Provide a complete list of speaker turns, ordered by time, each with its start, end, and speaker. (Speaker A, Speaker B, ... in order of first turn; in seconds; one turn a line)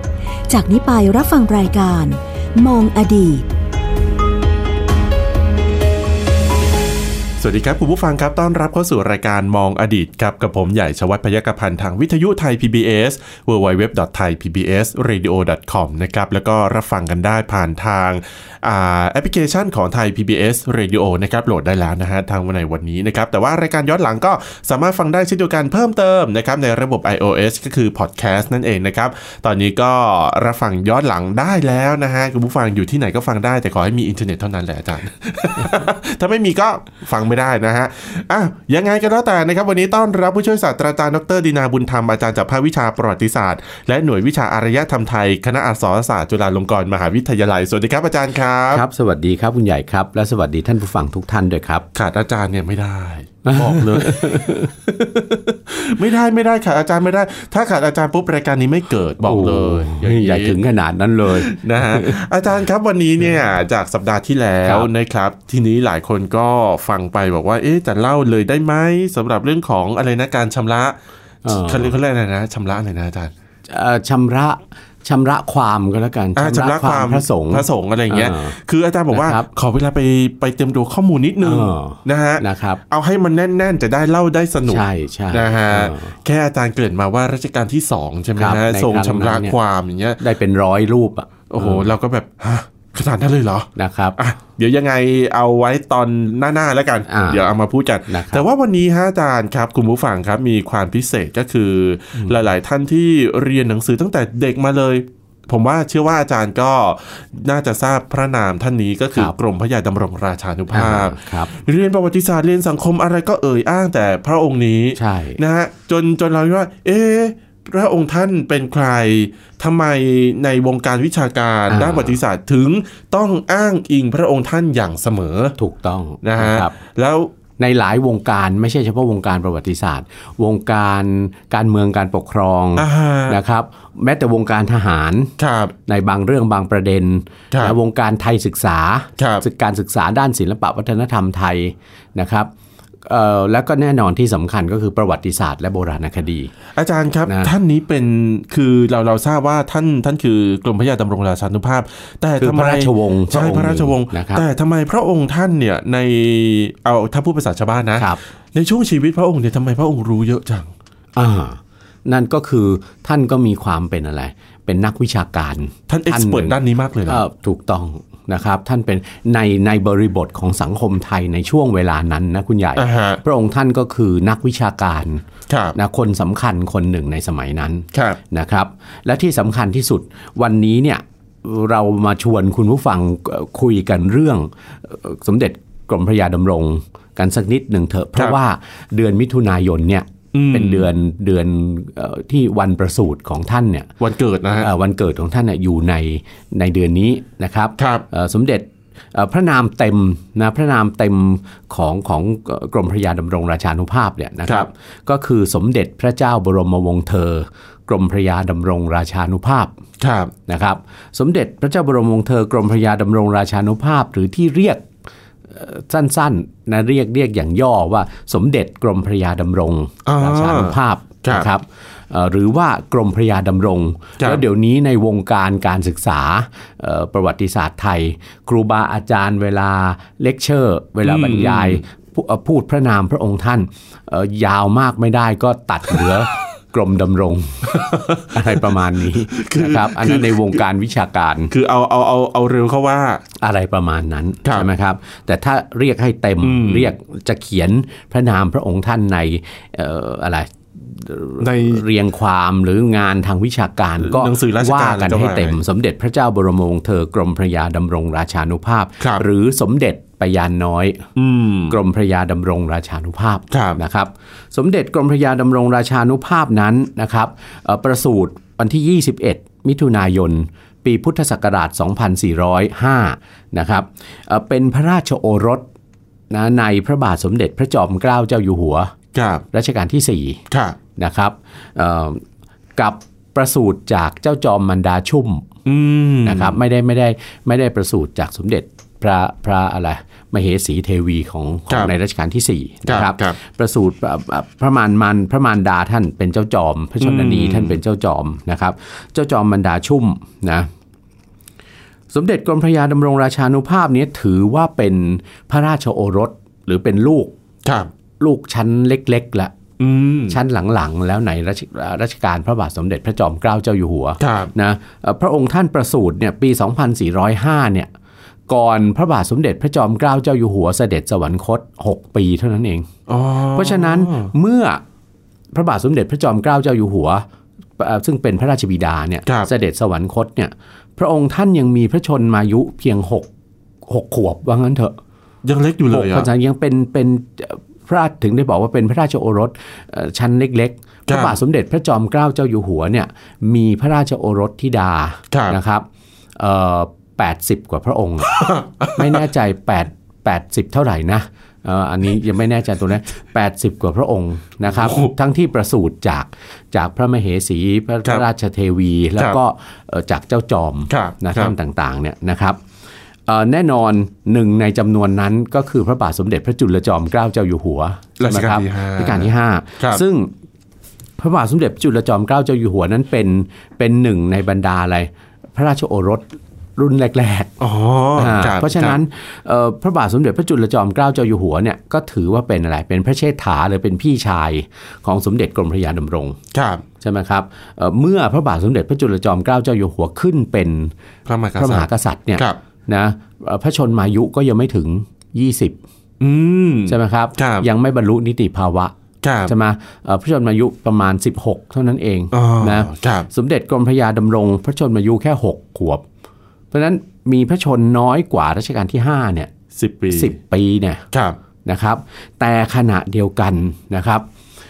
Speaker A: 0.5-3.5
Speaker B: 7.4-48.8
Speaker C: 48.7-51.9
Speaker B: 52.0-60.6
Speaker C: 53.5-54.7
Speaker C: 59.2-62.2
Speaker B: 61.3-73.3
Speaker C: 71.5-71.9
Speaker C: 73.7-78.6
Speaker B: 76.4-90.2
Speaker C: 79.1-79.5
Speaker C: 81.4-82.8
Speaker C: 84.7-86.2
Speaker C: 88.4-89.6
Speaker C: 90.2-91.9
Speaker B: 91.5-125.6
Speaker C: 93.8-94.2
Speaker C: 97.1-97.5
Speaker C: 98.1-98.4
Speaker C: 102.2-102.4
Speaker C: 110.7-111.5
Speaker C: 115.0-115.4
Speaker C: 121.7-122.2
Speaker C: 125.6-126.7
Speaker B: 126.2-127.3
Speaker C: 127.6-135.3
Speaker B: 132.8-133.4
Speaker B: 135.4-135.7
Speaker C: 135.9-142.5
Speaker B: 137.5-137.8
Speaker B: 139.2-139.4
Speaker C: 143.1-146.5
Speaker B: 146.8-160.7
Speaker C: 147.3-147.5
Speaker C: 152.4-154.4
Speaker C: 161.2-193.9
Speaker B: 165.9-167.2
Speaker B: 172.8-173.2
Speaker B: 175.5-175.8
Speaker B: 177.9-178.2
Speaker B: 190.3-190.9
Speaker B: 194.0-194.7
Speaker C: 194.6-209.8
Speaker B: 197.8-198.1
Speaker B: 210.0-210.3
Speaker C: 210.5-214.9
Speaker C: 215.5-241.5
Speaker B: 220.1-221.5
Speaker B: 231.0-231.8
Speaker B: 237.7-240.6
Speaker B: 241.5-243.2
Speaker C: 243.4-261.1
Speaker B: 246.4-246.9
Speaker B: 251.4-251.8
Speaker B: 254.0-255.6
Speaker B: 261.2-261.8
Speaker C: 261.7-275.7
Speaker B: 263.5-263.8
Speaker C: 276.3-278.9
Speaker B: 279.1-279.4
Speaker C: 279.5-280.4
Speaker B: 280.5-280.8
Speaker C: 281.0-282.2
Speaker C: 282.8-285.5
Speaker B: 285.6-286.6
Speaker C: 286.2-300.7
Speaker B: 292.9-293.4
Speaker B: 297.0-297.8
Speaker C: 302.1-307.4
Speaker B: 307.6-307.9
Speaker C: 308.2-309.5
Speaker B: 309.8-310.4
Speaker C: 310.3-317.9
Speaker B: 314.2-314.5
Speaker C: 318.5-322.9
Speaker B: 323.1-324.3
Speaker C: 323.5-324.8
Speaker C: 325.5-327.3
Speaker C: 327.8-333.3
Speaker C: 333.9-335.0
Speaker B: 335.4-336.3
Speaker C: 335.9-345.9
Speaker B: 341.1-341.4
Speaker B: 345.3-345.6
Speaker C: 346.4-348.4
Speaker B: 348.3-349.2
Speaker C: 348.9-362.6
Speaker B: 354.6-355.1
Speaker B: 360.9-361.5
Speaker C: 363.3-370.3
Speaker B: 368.2-370.0
Speaker C: 371.2-377.5
Speaker B: 377.6-379.0
Speaker C: 378.2-386.4
Speaker B: 386.5-386.8
Speaker C: 387.0-390.9
Speaker B: 391.3-392.6
Speaker C: 391.6-395.8
Speaker B: 396.2-397.7
Speaker C: 396.9-398.9
Speaker B: 399.2-399.5
Speaker C: 399.5-406.0
Speaker B: 402.3-403.3
Speaker C: 406.7-409.5
Speaker B: 409.8-410.3
Speaker C: 410.1-411.0
Speaker B: 411.1-411.4
Speaker C: 411.6-414.2